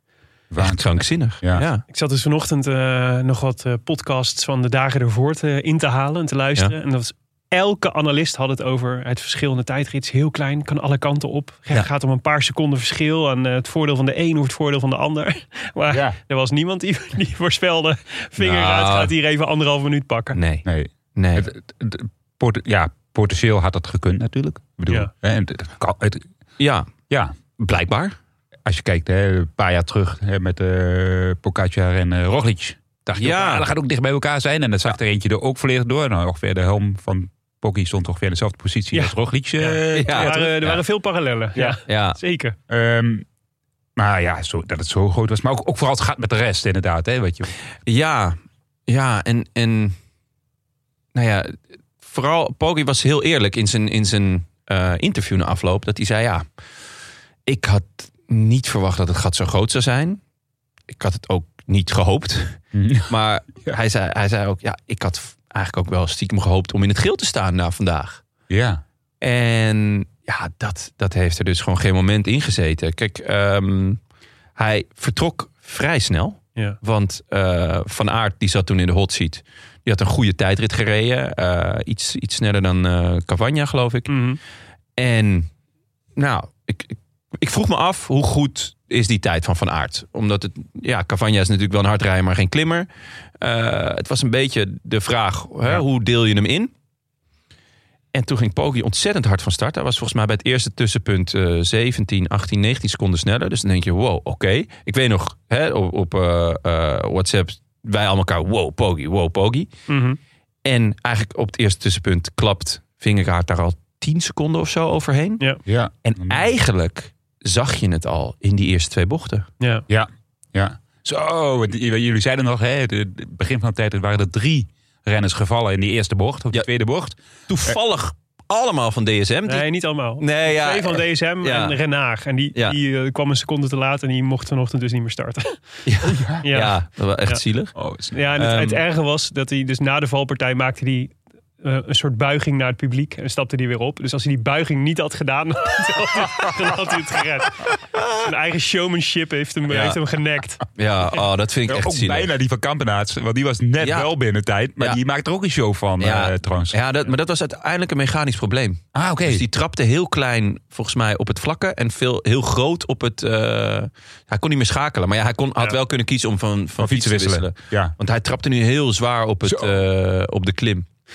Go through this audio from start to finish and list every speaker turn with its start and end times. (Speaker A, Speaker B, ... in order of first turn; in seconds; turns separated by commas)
Speaker A: 0.5-1.7, Speaker B: 0.6-1.8, Speaker C: 1.9-20.4, Speaker B: 18.4-19.1, Speaker B: 20.3-21.5, Speaker A: 20.6-26.2, Speaker B: 26.6-26.9, Speaker A: 27.1-27.4, Speaker B: 27.6-28.1, Speaker A: 28.6-40.5, Speaker B: 33.1-33.7, Speaker C: 38.9-42.6, Speaker B: 39.9-40.8, Speaker B: 41.9-42.2, Speaker A: 42.7-43.3, Speaker A: 44.0-47.5, Speaker B: 47.9-50.0, Speaker B: 51.1-56.5, Speaker B: 57.5-60.2, Speaker B: 60.9-68.2, Speaker A: 62.7-63.1, Speaker A: 68.5-68.8, Speaker B: 69.2-74.0, Speaker B: 74.6-84.2, Speaker C: 84.1-84.4, Speaker B: 85.0-85.5, Speaker B: 86.2-92.9, Speaker B: 93.4-96.7, Speaker B: 98.1-109.7, Speaker C: 109.9-110.2, Speaker B: 110.7-115.4, Speaker A: 115.7-116.5, Speaker B: 116.0-119.5, Speaker A: 119.9-127.8, Speaker B: 127.5-129.7, Speaker C: 129.5-135.6, Speaker B: 130.2-131.8, Speaker B: 135.9-137.8, Speaker C: 136.2-137.4, Speaker A: 137.8-138.2, Speaker C: 138.1-150.6, Speaker B: 138.4-138.8, Speaker B: 148.0-148.2, Speaker B: 149.7-150.0, Speaker B: 150.8-152.3, Speaker A: 151.7-156.8, Speaker B: 153.8-154.1, Speaker B: 156.0-170.8, Speaker A: 158.9-159.4, Speaker A: 166.8-167.9, Speaker A: 169.4-169.7